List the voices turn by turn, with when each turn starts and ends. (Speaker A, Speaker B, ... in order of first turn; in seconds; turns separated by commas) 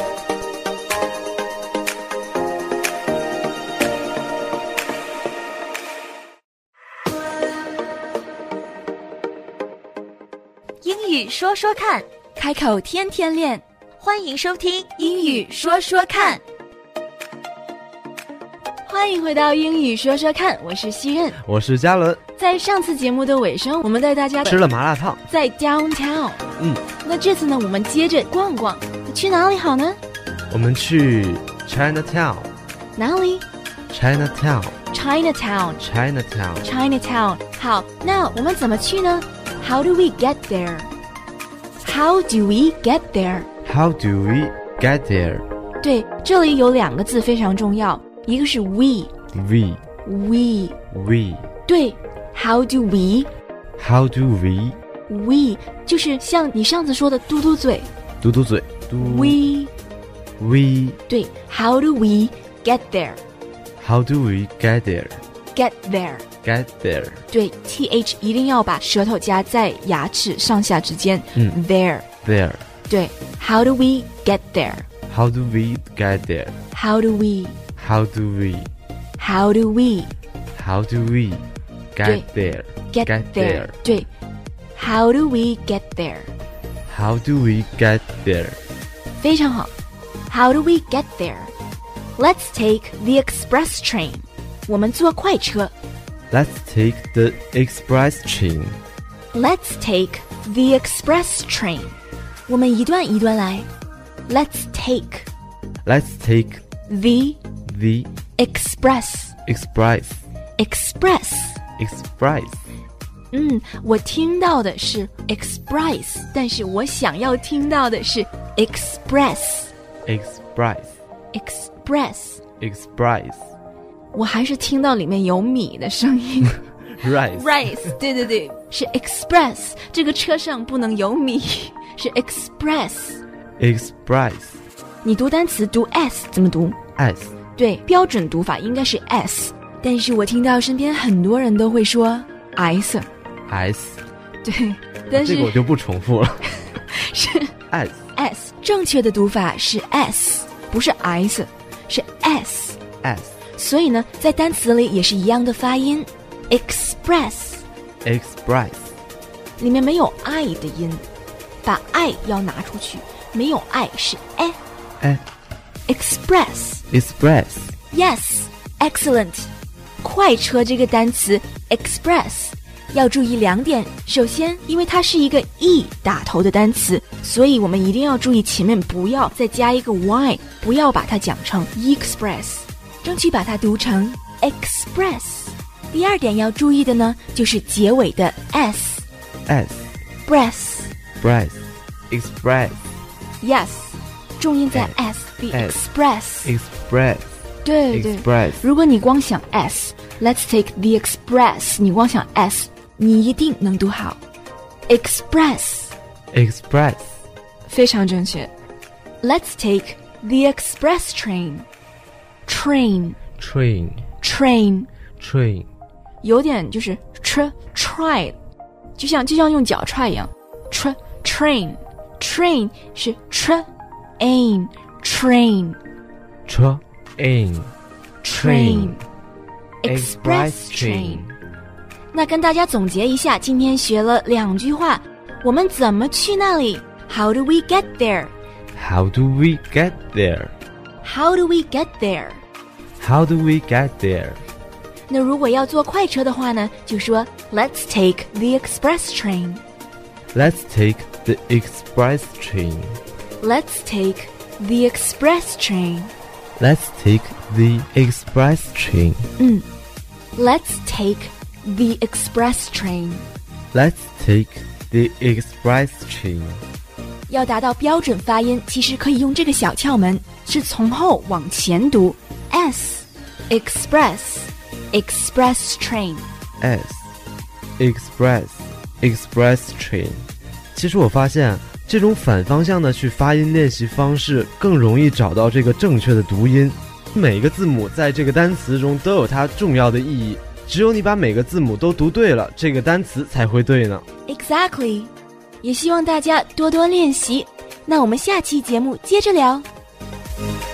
Speaker A: 10.8-12.1, Speaker B: 12.4-13.6, Speaker A: 14.0-16.4, Speaker B: 15.0-16.2, Speaker B: 18.9-21.4, Speaker C: 21.4-22.2, Speaker B: 22.4-24.6, Speaker C: 24.4-25.2, Speaker B: 25.3-26.5, Speaker B: 27.0-30.0, Speaker C: 30.5-32.5, Speaker B: 33.0-33.5, Speaker C: 33.9-34.8, Speaker B: 34.9-35.8, Speaker C: 35.8-36.7, Speaker B: 36.6-40.9, Speaker B: 41.8-43.5, Speaker C: 43.6-45.5, Speaker B: 45.8-49.1, Speaker C: 49.3-49.8, Speaker B: 50.0-50.8, Speaker C: 50.9-51.5, Speaker B: 51.7-53.3, Speaker C: 53.8-54.8, Speaker B: 55.1-57.9, Speaker C: 58.2-59.4, Speaker B: 59.0-59.7, Speaker C: 60.4-61.0, Speaker B: 61.1-63.2, Speaker C: 63.8-65.2, Speaker B: 65.5-66.2, Speaker C: 66.4-67.2, Speaker B: 67.3-72.1, Speaker C: 72.2-72.6, Speaker B: 72.9-74.9, Speaker C: 75.1-76.6, Speaker B: 76.7-77.6, Speaker C: 77.8-78.7, Speaker B: 79.2-80.1, Speaker C: 80.5-83.8, Speaker B: 82.0-84.1, Speaker B: 84.8-86.3, Speaker C: 86.9-88.6, Speaker B: 89.2-89.7, Speaker B: 90.3-91.5, Speaker B: 92.2-95.7, Speaker C: 96.3-98.8, Speaker B: 99.3-102.0, Speaker B: 102.5-103.7, Speaker B: 104.3-105.3, Speaker C: 105.8-106.6, Speaker B: 106.9-107.4, Speaker C: 107.7-108.1, Speaker B: 108.4-109.4, Speaker C: 109.5-110.2, Speaker B: 110.6-111.6, Speaker C: 111.8-112.7, Speaker B: 113.3-119.7, Speaker C: 120.1-121.0, Speaker B: 121.3-122.4, Speaker C: 122.6-123.5, Speaker B: 124.1-133.2, Speaker C: 126.9-128.0, Speaker C: 133.6-134.6, Speaker B: 135.0-136.8, Speaker C: 137.0-137.3, Speaker B: 137.6-143.1, Speaker C: 143.5-144.0, Speaker B: 144.4-145.7, Speaker C: 145.1-146.6, Speaker B: 146.6-147.5, Speaker C: 147.7-148.1, Speaker B: 148.2-152.8, Speaker C: 153.0-153.4, Speaker B: 153.5-157.7, Speaker C: 158.0-158.9, Speaker B: 159.6-161.0, Speaker B: 161.6-164.6, Speaker B: 165.9-166.8, Speaker C: 166.9-167.8, Speaker B: 167.9-169.5, Speaker B: 170.0-189.1, Speaker C: 189.5-189.9, Speaker B: 190.3-190.9, Speaker C: 191.2-192.9, Speaker B: 193.4-196.6, Speaker C: 195.5-195.8, Speaker C: 196.4-197.3, Speaker B: 197.7-204.2, Speaker C: 197.9-198.6, Speaker B: 204.9-205.9, Speaker C: 206.3-207.2, Speaker B: 207.7-208.5, Speaker B: 209.2-211.7, Speaker B: 212.5-213.2, Speaker C: 213.4-214.1, Speaker B: 214.2-214.9, Speaker C: 215.2-215.7, Speaker B: 216.2-218.4, Speaker B: 219.0-223.7, Speaker B: 224.2-225.8, Speaker C: 226.5-227.7, Speaker B: 228.2-229.0, Speaker C: 228.3-229.0, Speaker B: 229.8-231.2, Speaker C: 229.8-231.4, Speaker B: 232.1-238.3, Speaker C: 238.8-240.6, Speaker B: 241.0-242.4, Speaker C: 243.0-244.4, Speaker B: 245.1-249.6, Speaker C: 250.3-253.0, Speaker B: 253.4-256.1, Speaker C: 256.6-259.3, Speaker B: 259.4-259.7, Speaker B: 260.4-263.3, Speaker C: 263.7-266.6, Speaker B: 267.3-276.3, Speaker C: 276.6-277.1, Speaker C: 277.8-294.1, Speaker B: 294.3-299.7